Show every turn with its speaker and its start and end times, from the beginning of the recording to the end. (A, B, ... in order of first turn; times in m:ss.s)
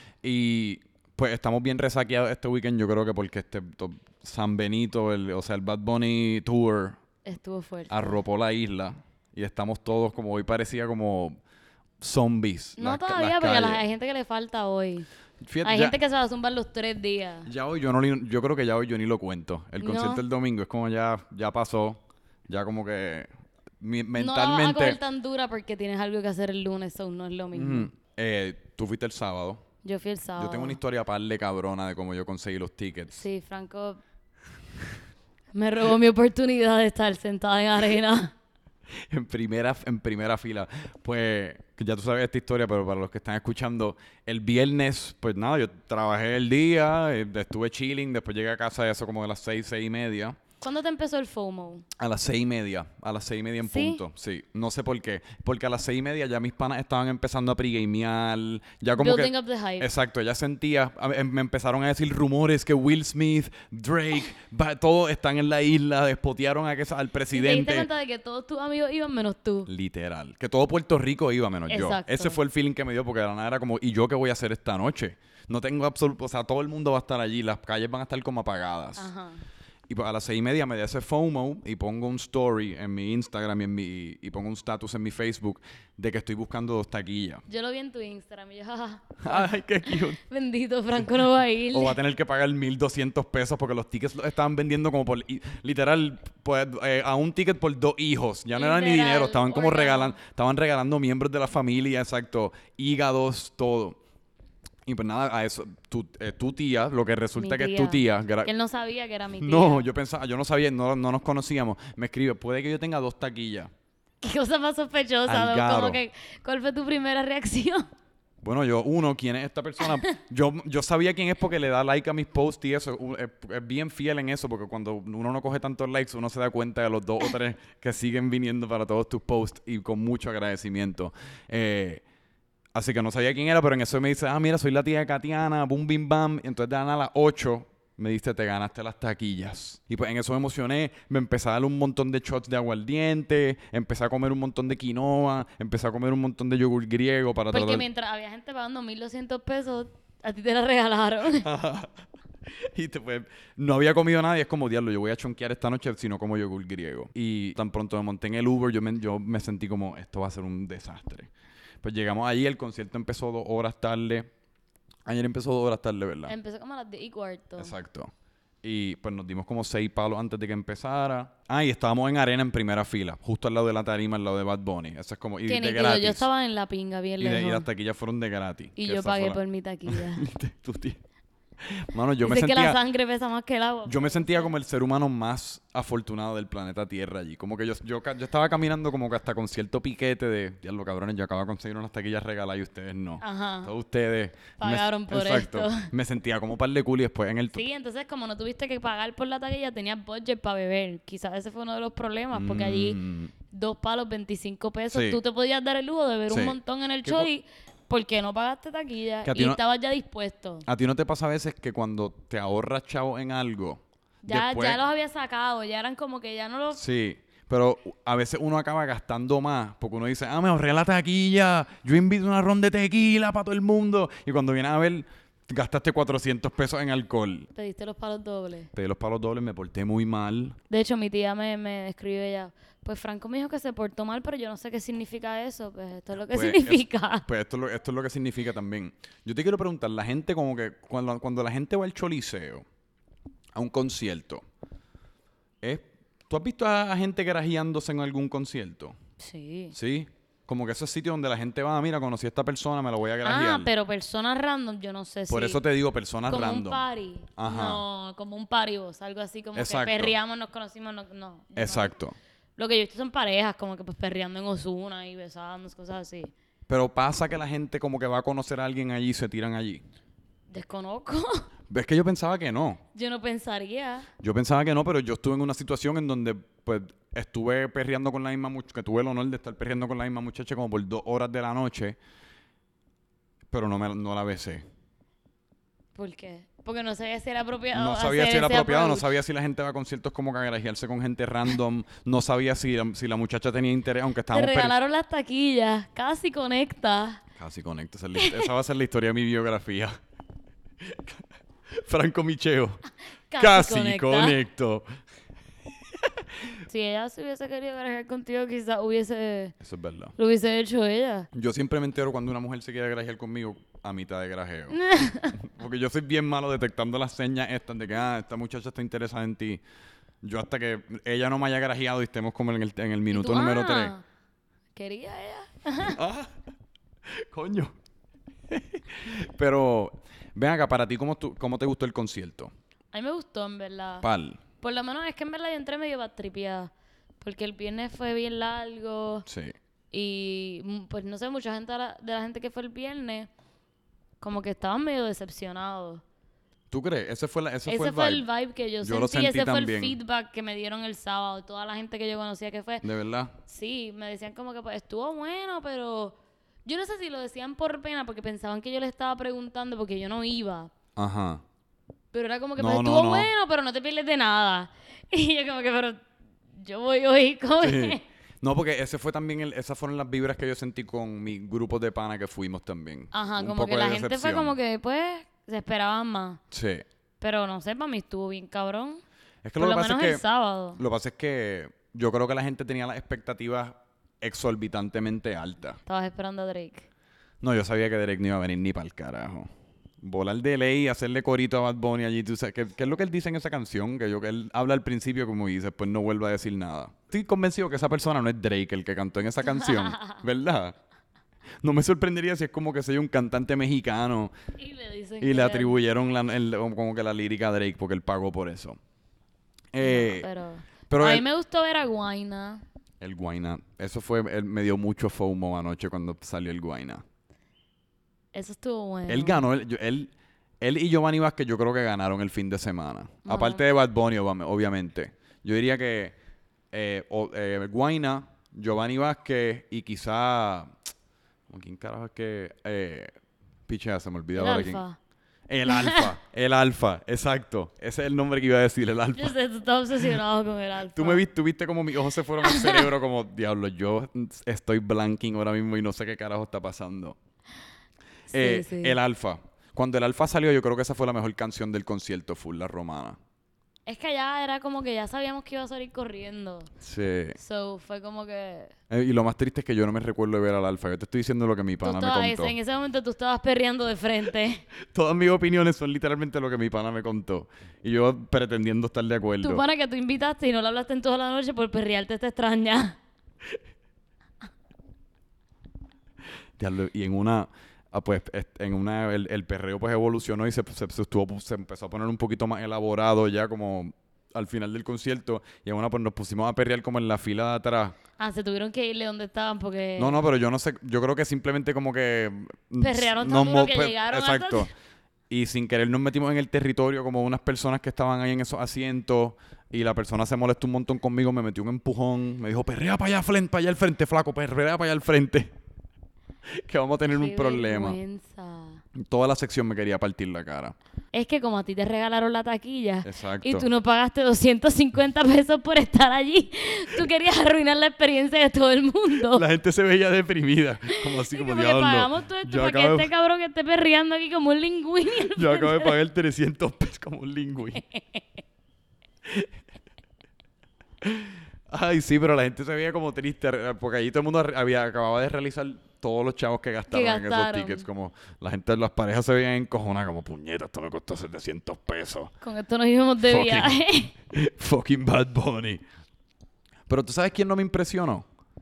0:00.2-0:07.0 A
0:07.2-0:08.0 B
0:07.9-0:11.4 A
0:12.0-0:13.8 A
0:12.8-0:15.1 B
0:15.4-0:16.0 A
0:15.6-0:17.5 B
0:17.5-0:23.3 A
0:19.8-0:20.2 B
0:23.8-0:25.0 A
0:24.2-0:27.9 B
0:27.5-0:29.6 A
0:29.8-0:30.8 B
0:30.4-0:33.2 A
0:33.1-0:34.0 B
0:35.5-0:38.3 B
0:39.1-0:50.4 A
0:50.6-0:51.8 B
0:52.0-1:07.9 A
0:53.7-0:54.0 B
0:59.0-0:59.9 B
1:07.3-1:09.7 B
1:09.7-1:19.1 A
1:11.7-1:12.4 B
1:19.0-1:19.4 B
1:19.9-1:27.4 A
1:27.5-1:32.0 B
1:29.2-1:30.2 A
1:31.7-1:44.0 A
1:38.5-1:40.2 B
1:44.9-1:48.5 A
1:47.4-1:49.8 B
1:49.4-1:53.7 A
1:54.2-1:57.9 B
1:55.3-1:56.0 A
1:58.4-2:12.0 A
2:12.7-2:27.8 A
2:27.5-2:31.5 B
2:31.4-2:41.3 A
2:41.8-2:44.3 A
2:45.1-2:46.4 A
2:46.3-2:47.7 B
2:47.6-2:48.1 A
2:48.6-2:56.3 A
2:55.5-2:57.7 B
2:57.2-3:01.0 A
2:58.8-3:00.2 B
3:01.6-3:02.8 A
3:02.2-3:04.5 B
3:03.9-3:17.6 A
3:13.2-3:13.7 B
3:14.6-3:15.9 B
3:17.5-3:23.0 B
3:22.3-3:23.3 A
3:23.5-3:30.6 B
3:24.9-3:25.2 A
3:26.3-3:27.3 A
3:29.2-3:29.6 A
3:30.7-3:34.8 A
3:34.2-3:36.8 B
3:36.7-3:47.5 A
3:47.6-3:48.7 B
3:48.7-3:50.6 A
3:50.7-3:57.2 B
3:56.3-4:02.7 A
4:03.6-4:04.4 A
4:05.6-4:09.0 A
4:09.2-4:09.7 B
4:09.7-4:13.7 A
4:13.2-4:15.6 B
4:15.3-4:16.8 A
4:16.3-4:22.0 B
4:17.4-4:17.8 A
4:19.6-4:20.1 A
4:21.6-4:22.2 A
4:22.6-4:26.3 B
4:26.7-4:29.8 A
4:30.5-4:31.5 B
4:31.7-4:32.8 A
4:32.9-4:34.1 B
4:34.2-4:42.0 A
4:43.5-4:44.6 A
4:46.0-4:49.1 B
4:47.7-4:54.7 A
4:54.3-4:57.2 B
4:57.4-5:00.0 A
4:58.2-4:58.5 B
5:00.8-5:02.8 A
5:03.3-5:04.4 B
5:03.4-5:05.0 A
5:06.0-5:06.5 A
5:06.7-5:09.6 B
5:09.6-5:10.2 A
5:10.2-5:11.3 B
5:11.3-5:19.6 A
5:14.7-5:15.4 B
5:20.2-5:23.9 A
5:23.1-5:24.0 B
5:24.8-5:26.0 B
5:25.8-5:26.4 A
5:27.1-5:27.7 A
5:28.5-5:32.5 A
5:32.9-5:34.0 B
5:34.0-5:34.4 A
5:34.6-5:39.2 B
5:39.3-5:39.6 A
5:39.9-5:43.3 B
5:44.2-5:46.0 B
5:46.7-5:48.2 A
5:47.7-5:52.8 B
5:48.8-5:50.0 A
5:52.8-5:53.3 A
5:53.5-6:00.7 B
6:01.0-6:01.4 A
6:02.1-6:06.0 B
6:02.6-6:03.3 A
6:06.5-6:08.0 B
6:07.6-6:14.6 A
6:13.1-6:16.4 B
6:16.5-6:16.8 A
6:17.2-6:19.0 B
6:19.4-6:20.2 A
6:19.6-6:20.8 B
6:20.8-6:25.8 A
6:25.9-6:26.9 B
6:27.4-6:29.5 A
6:30.0-6:40.8 A
6:39.5-6:40.2 B
6:41.6-6:44.3 A
6:44.6-6:45.8 B
6:45.2-6:48.8 A
6:49.7-6:50.3 A
6:49.8-6:52.6 B
6:50.9-6:51.2 A
6:53.0-6:57.0 A
6:58.3-6:59.4 B
6:59.1-7:06.1 A
7:03.2-7:03.6 B
7:06.7-7:10.8 A
7:11.5-7:13.2 A
7:13.7-7:14.8 A
7:14.4-7:15.0 B
7:15.5-7:19.4 A
7:15.7-7:16.1 B
7:19.2-7:21.2 B
7:21.0-7:27.2 A
7:22.4-7:22.8 B
7:28.3-7:29.0 B
7:28.3-7:33.2 A
7:33.9-7:36.7 B
7:36.8-7:37.4 A
7:37.4-7:38.7 B
7:38.9-7:42.6 A
7:41.8-7:44.6 B
7:44.9-7:49.6 A
7:49.4-7:53.0 B
7:56.6-8:08.0 A
8:08.2-8:10.2 B
8:10.0-8:14.7 A
8:12.8-8:14.7 B
8:15.3-8:25.5 A
8:26.5-8:28.0 A
8:27.2-8:28.8 B
8:29.0-8:30.8 A
8:31.1-8:39.4 B
8:33.0-8:33.7 A
8:39.3-8:43.1 A
8:41.0-8:46.0 B
8:45.3-8:47.8 A
8:47.8-8:48.2 B
8:51.0-9:02.3 A
8:56.9-8:57.9 B
9:02.4-9:04.1 B
9:03.2-9:03.8 A
9:04.3-9:05.8 A
9:06.9-9:08.3 A